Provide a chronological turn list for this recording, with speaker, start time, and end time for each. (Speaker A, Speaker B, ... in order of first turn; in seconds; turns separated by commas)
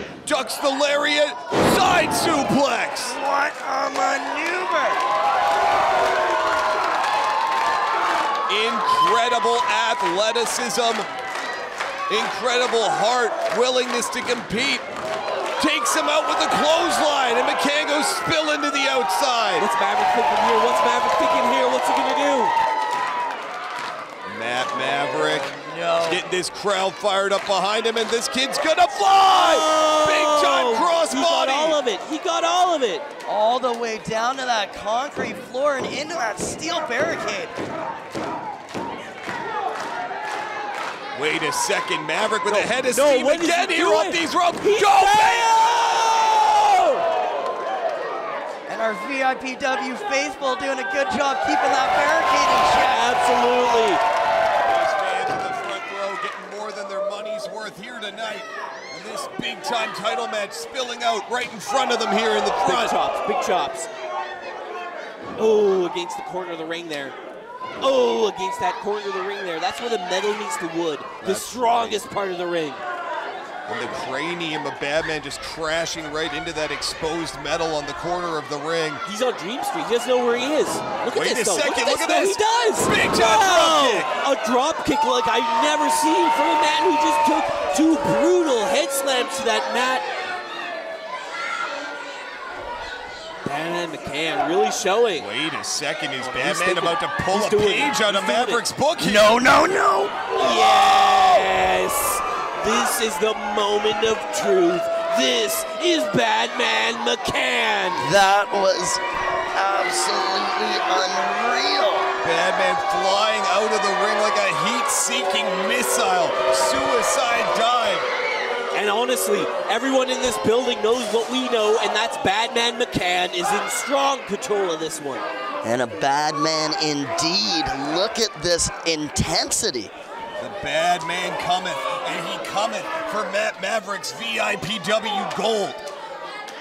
Speaker A: 0.3-3.2, Speaker B: 3.0-5.0, Speaker A: 8.5-11.1, Speaker A: 12.1-14.8, Speaker A: 15.6-19.7, Speaker C: 19.6-22.5, Speaker A: 24.3-25.5, Speaker B: 24.8-26.2, Speaker A: 26.0-31.8, Speaker C: 29.3-33.0, Speaker B: 33.3-37.6, Speaker A: 41.1-45.8, Speaker C: 42.5-47.0, Speaker B: 48.7-53.1, Speaker C: 52.8-54.0, Speaker A: 54.7-62.9, Speaker C: 62.6-63.9, Speaker C: 65.4-67.2, Speaker C: 67.8-72.8, Speaker A: 71.2-72.0, Speaker A: 73.7-79.0, Speaker C: 79.0-90.0, Speaker A: 81.1-84.1, Speaker C: 93.5-95.3, Speaker A: 95.2-99.4, Speaker C: 96.2-98.6, Speaker B: 99.0-101.5, Speaker C: 100.4-108.1, Speaker B: 108.0-109.0, Speaker B: 109.5-112.1, Speaker A: 112.2-118.0, Speaker C: 118.7-125.2, Speaker B: 125.6-129.9, Speaker A: 130.4-135.8